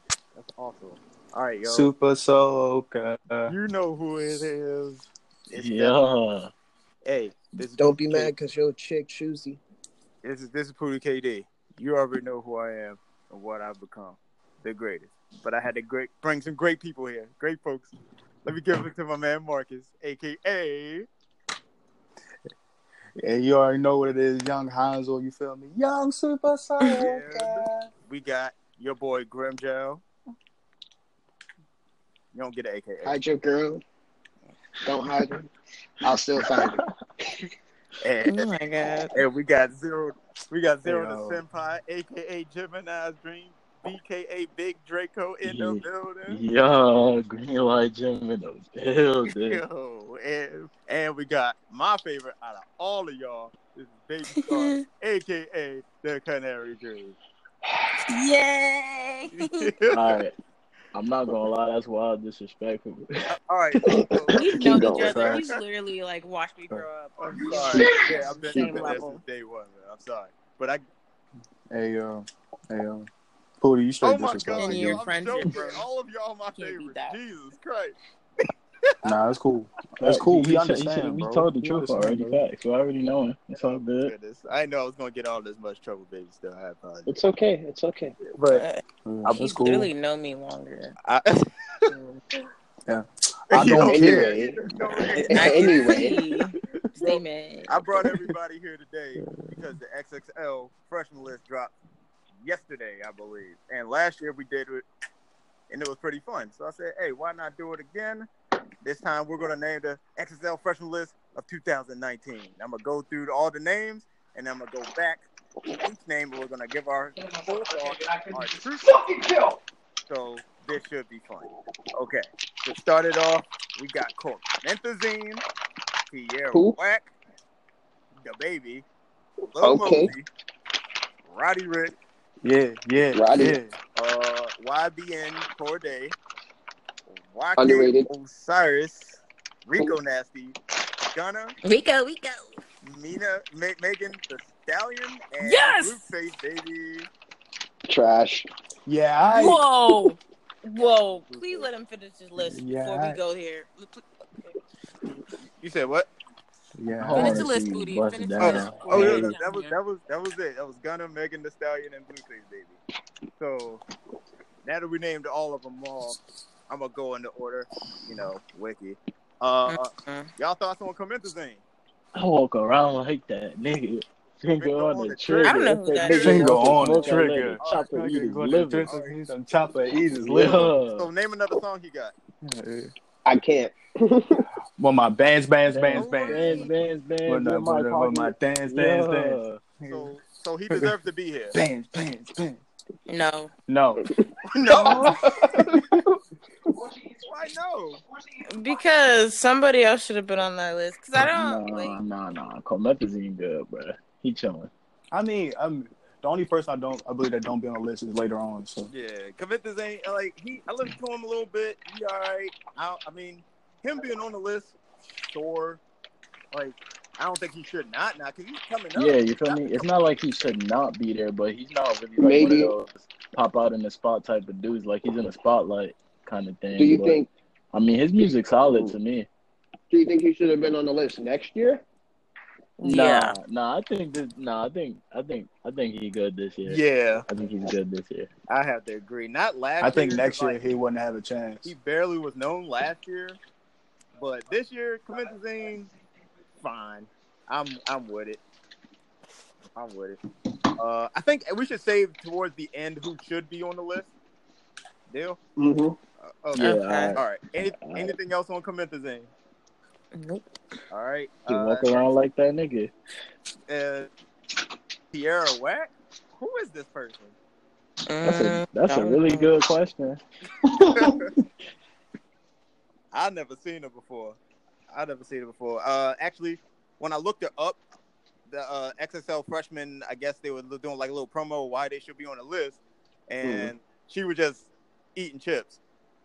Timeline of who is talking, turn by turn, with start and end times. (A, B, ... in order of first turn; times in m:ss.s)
0:00.4-0:01.9 A
0:01.6-0:03.6 B
0:03.5-0:06.0 A
0:05.5-0:06.5 C
0:07.0-0:08.3 A
0:07.8-0:09.6 D
0:10.2-0:17.9 A
0:18.4-0:21.1 A
0:23.2-0:27.9 B
0:26.9-0:30.0 A
0:32.3-0:33.2 A
0:33.0-0:33.8 D
0:34.8-0:35.5 D
0:36.0-0:36.8 D
0:38.0-0:38.5 A
0:38.2-0:39.1 E
0:39.1-0:46.4 A
0:40.8-0:41.4 B
0:45.4-0:49.6 C
0:49.3-0:57.2 A
0:54.4-0:54.8 E
0:58.1-0:59.7 E
0:59.4-1:00.2 A
0:59.9-1:00.3 C
1:00.9-1:03.3 C
1:03.3-1:05.6 A
1:03.8-1:05.3 D
1:04.3-1:09.2 E
1:04.7-1:05.4 B
1:07.2-1:10.8 A
1:07.7-1:08.1 D
1:11.7-1:13.1 B
1:13.6-1:15.0 B
1:14.0-1:18.0 A
1:14.5-1:15.8 E
1:16.6-1:17.2 E
1:18.9-1:19.1 A
1:19.0-1:22.4 B
1:20.0-1:24.1 C
1:23.5-1:27.1 A
1:27.1-1:28.2 D
1:28.4-1:29.9 B
1:28.5-1:31.0 E
1:31.0-1:31.9 A
1:31.9-1:32.2 D
1:32.9-1:34.4 B
1:33.5-1:36.1 A
1:33.6-1:36.2 D
1:35.2-1:37.9 E
1:37.7-1:41.7 A
1:39.2-1:39.6 B
1:42.4-1:44.8 A
1:45.7-1:48.3 A
1:48.8-1:55.3 A
1:55.8-1:59.0 A
2:00.1-2:05.4 A
2:06.1-2:07.1 A
2:06.5-2:06.8 D
2:08.2-2:08.8 A
2:09.4-2:10.3 A
2:09.6-2:10.1 D
2:11.3-2:11.9 A
2:12.4-2:13.8 B
2:13.2-2:13.6 D
2:14.0-2:16.2 A
2:17.1-2:20.6 A
2:17.6-2:18.1 D
2:21.1-2:21.6 A
2:21.6-2:22.6 E
2:22.8-2:27.1 A
2:25.4-2:26.1 E
2:27.9-2:28.5 D
2:28.9-2:29.6 B
2:29.3-2:34.6 E
2:31.3-2:31.6 A
2:32.4-2:33.2 B
2:35.6-2:36.1 A
2:36.8-2:37.5 B
2:37.0-2:39.4 C
2:37.1-2:39.8 E
2:38.4-2:42.8 A
2:43.4-2:43.8 A
2:44.6-2:46.2 A
2:46.7-2:51.6 A
2:49.7-2:50.3 E
2:52.2-2:58.9 C
2:54.6-2:58.2 A
2:55.3-2:56.6 E
2:56.0-3:00.7 B
2:58.8-2:59.2 A
3:00.2-3:01.1 C
3:01.0-3:02.1 A
3:02.4-3:02.9 B
3:03.2-3:04.5 D
3:04.8-3:06.7 B
3:05.7-3:09.6 C
3:05.9-3:06.7 A
3:07.3-3:10.1 B
3:09.8-3:11.6 A
3:11.5-3:12.6 B
3:13.1-3:13.5 E
3:13.7-3:14.1 B
3:14.5-3:15.5 A
3:14.7-3:16.0 B
3:14.7-3:15.8 D
3:17.2-3:18.0 A
3:18.5-3:22.0 E
3:21.2-3:24.7 C
3:25.1-3:28.9 B
3:28.9-3:35.8 A
3:36.5-3:39.9 A
3:39.0-3:49.3 C
3:42.2-3:42.7 D
3:46.8-3:47.3 D
3:48.2-3:49.0 D
3:49.9-3:51.8 D
3:52.8-3:53.4 E
3:52.8-3:58.3 C
3:56.6-3:57.2 A
3:58.5-4:00.8 A
3:59.8-4:01.7 B
4:01.6-4:03.4 A
4:04.2-4:05.9 A
4:06.6-4:08.4 A
4:09.8-4:10.2 A
4:10.8-4:14.1 A
4:15.1-4:15.4 A
4:15.6-4:16.0 D
4:16.2-4:19.3 A
4:16.5-4:18.2 C
4:16.6-4:17.2 E
4:20.1-4:20.5 E
4:20.9-4:21.9 A
4:21.5-4:22.9 C
4:23.7-4:24.1 A
4:25.1-4:27.4 A
4:28.1-4:29.6 E
4:28.2-4:30.2 C
4:30.6-4:31.2 D
4:30.9-4:31.3 A
4:33.1-4:34.4 A
4:34.9-4:37.8 A
4:38.5-4:45.8 A